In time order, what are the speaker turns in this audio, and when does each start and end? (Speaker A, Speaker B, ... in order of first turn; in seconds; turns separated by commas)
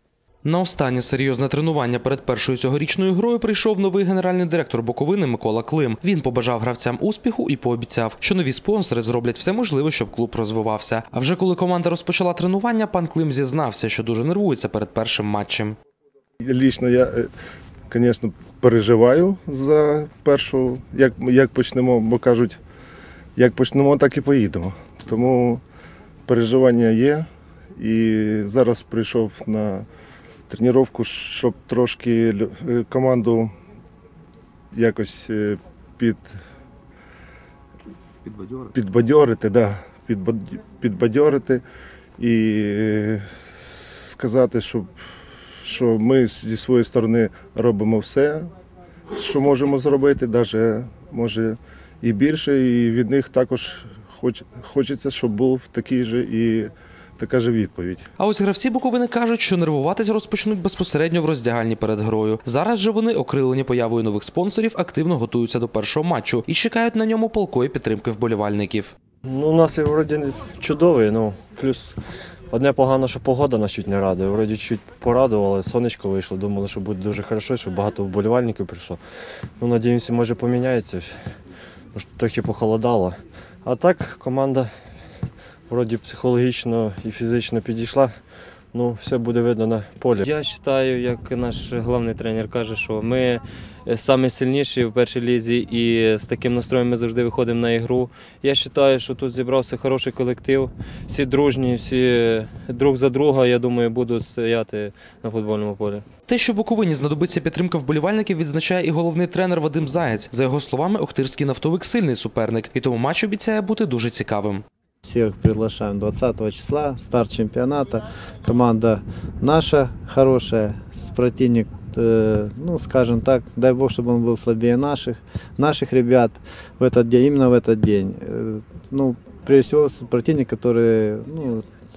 Speaker A: 0.4-15.8, Speaker B: 16.4-17.3, Speaker B: 17.9-22.6, Speaker B: 23.4-25.6, Speaker B: 26.3-29.8, Speaker B: 30.5-33.5, Speaker B: 34.7-36.4, Speaker B: 38.7-41.6, Speaker B: 42.2-44.9, Speaker B: 45.6-48.5, Speaker B: 49.1-58.0, Speaker A: 58.2-68.9, Speaker C: 69.3-71.9, Speaker C: 72.6-79.0, Speaker C: 79.6-81.1, Speaker C: 82.0-84.7, Speaker C: 85.7-88.1, Speaker C: 88.7-90.2, Speaker D: 90.2-106.0, Speaker A: 106.3-114.6, Speaker E: 115.0-131.6